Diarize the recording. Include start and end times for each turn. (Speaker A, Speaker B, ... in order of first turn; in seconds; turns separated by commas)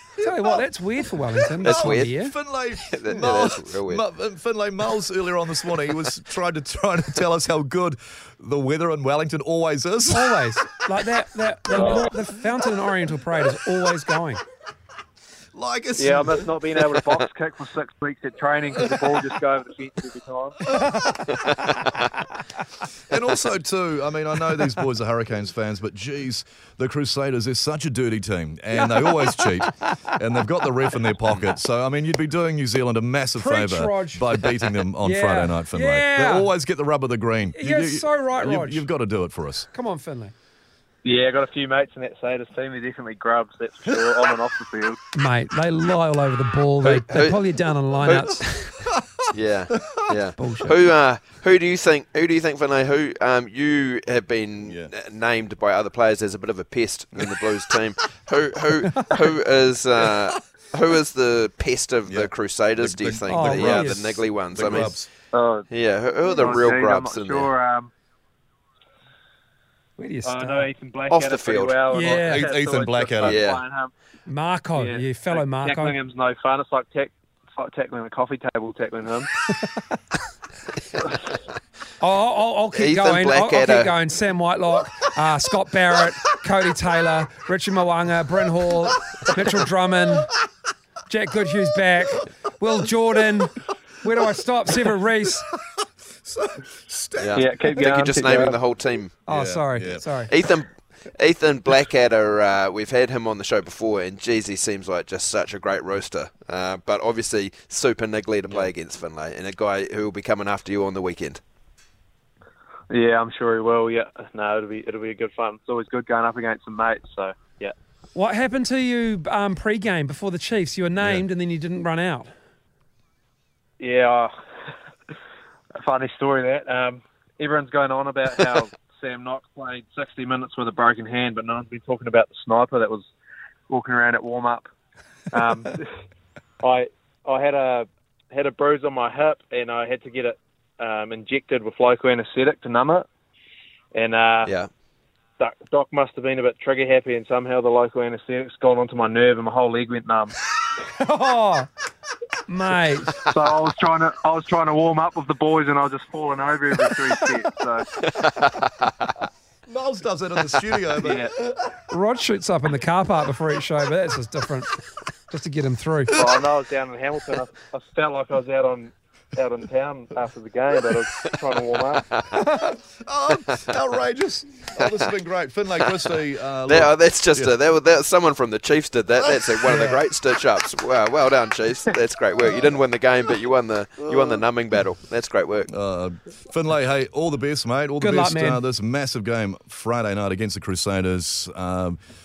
Speaker A: 0.2-0.6, Speaker B: 0.2-2.3, Speaker A: 1.5-10.4, Speaker C: 1.6-2.1, Speaker C: 2.9-4.0, Speaker B: 10.1-14.4, Speaker A: 11.7-12.1, Speaker D: 11.7-12.1, Speaker A: 15.5-17.0, Speaker D: 16.0-20.6, Speaker A: 18.8-19.2, Speaker B: 20.8-21.2, Speaker A: 20.8-21.1, Speaker A: 23.1-39.7, Speaker B: 28.7-30.1, Speaker B: 33.4-36.5, Speaker B: 37.5-38.9, Speaker B: 39.7-40.3, Speaker D: 41.0-45.0, Speaker B: 45.1-48.7, Speaker C: 46.8-48.7, Speaker C: 49.3-65.0, Speaker A: 49.8-50.1, Speaker B: 50.4-50.7, Speaker A: 54.6-54.9, Speaker A: 62.1-65.1, Speaker B: 63.3-64.2, Speaker D: 65.3-65.7, Speaker C: 65.7-67.5, Speaker D: 66.3-67.9, Speaker B: 70.0-70.7, Speaker D: 70.2-73.9, Speaker C: 71.1-71.8, Speaker B: 71.9-72.4, Speaker A: 72.0-73.5, Speaker C: 73.2-73.6, Speaker B: 74.2-76.0, Speaker D: 74.7-79.3, Speaker B: 82.0-90.3, Speaker C: 82.7-83.9, Speaker B: 91.1-95.5, Speaker A: 96.2-97.9, Speaker C: 97.2-99.2, Speaker D: 97.3-98.6, Speaker A: 99.3-100.1, Speaker B: 99.3-100.3, Speaker C: 100.3-111.4, Speaker D: 112.9-117.7, Speaker B: 118.1-122.3, Speaker D: 123.8-124.3, Speaker D: 125.7-133.1, Speaker D: 133.7-134.6, Speaker D: 135.3-135.8, Speaker D: 136.6-143.1, Speaker D: 143.9-144.5, Speaker C: 144.4-144.7, Speaker D: 145.4-150.3, Speaker B: 151.0-151.7, Speaker B: 152.5-153.2, Speaker D: 153.2-157.8, Speaker C: 158.2-158.7, Speaker A: 159.7-161.7, Speaker D: 161.0-161.3, Speaker B: 161.9-164.7, Speaker B: 165.3-166.1, Speaker D: 166.1-172.0, Speaker A: 172.6-177.5, Speaker C: 174.8-175.1, Speaker C: 176.7-185.7, Speaker A: 179.2-179.6, Speaker B: 179.6-180.0, Speaker A: 185.7-192.0, Speaker B: 188.0-188.6